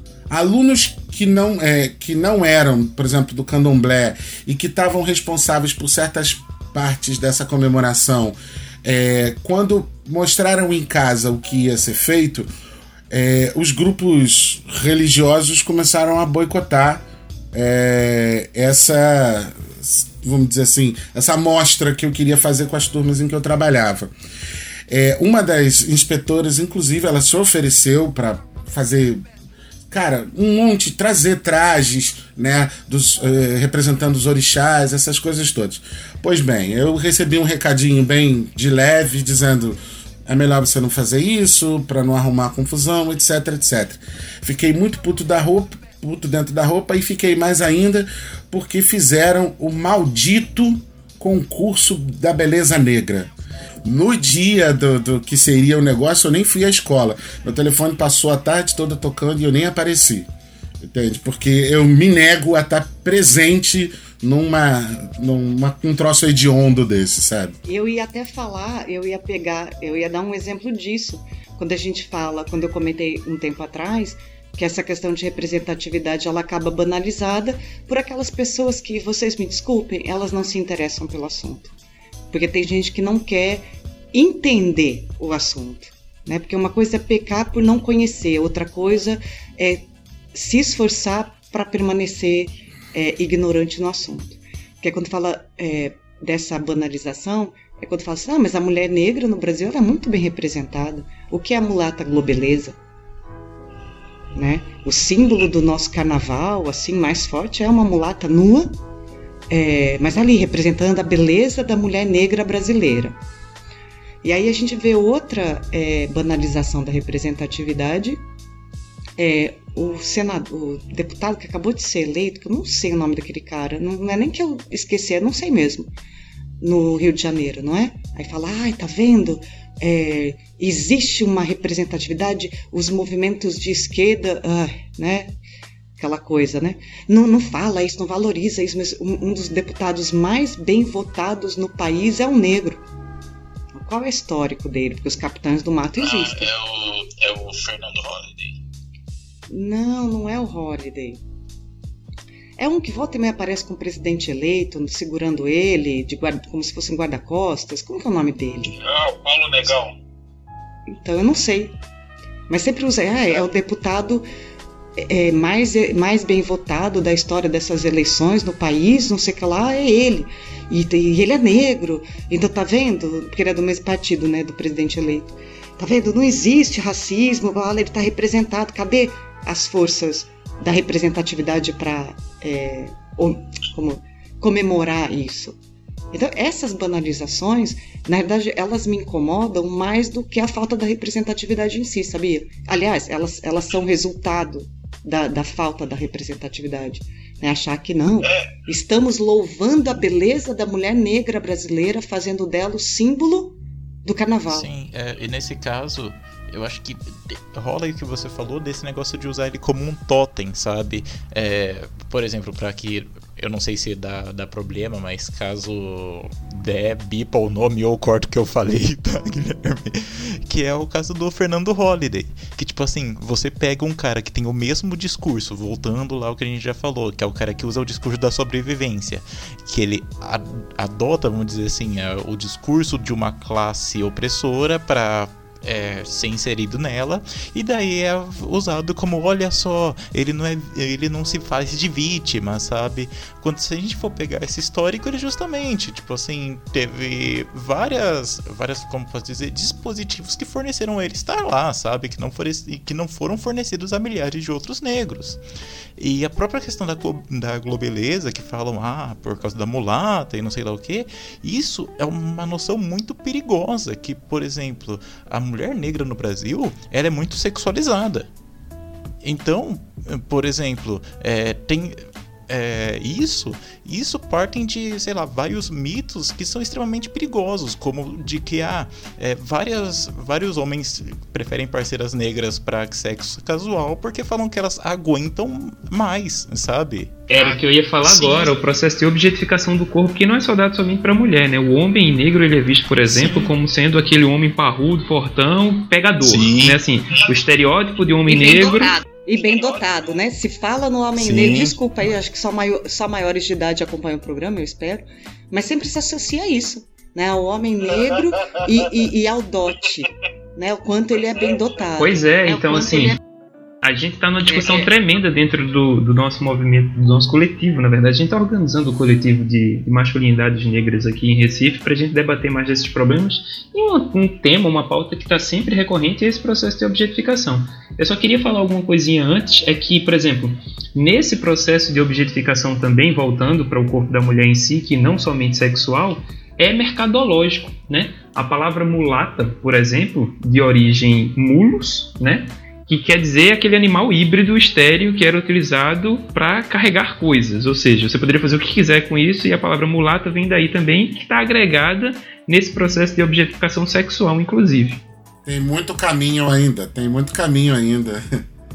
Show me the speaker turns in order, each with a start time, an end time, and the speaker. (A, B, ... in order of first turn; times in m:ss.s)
0:00.3-0:12.5 A
0:13.1-0:24.1 A
0:24.9-0:29.2 A
0:29.9-0:53.3 A
0:53.8-1:00.3 A
1:00.8-1:07.6 A
1:07.6-1:21.7 B
1:22.3-1:42.8 B
1:44.4-1:48.8 B
1:49.5-1:53.2 B
1:54.2-1:58.2 B
1:59.2-2:05.9 B
2:06.6-2:15.4 B
2:16.0-2:22.8 B
2:23.7-2:26.5 B
2:26.0-2:28.6 C
2:29.5-2:31.2 B
2:32.6-2:38.8 B
2:38.8-2:39.9 C
2:40.9-2:41.8 B
2:42.5-2:44.3 B
2:45.0-3:05.6 B
3:06.1-3:24.7 B
3:24.5-4:15.4 D
4:16.0-4:28.3 D
4:29.2-4:47.2 D
4:47.3-4:59.0 E
4:53.0-4:53.5 D
4:56.2-4:56.8 D
4:58.3-5:12.2 B
5:01.2-5:01.7 D
5:12.0-5:13.2 E
5:13.8-5:55.0 E
5:55.4-5:58.4 A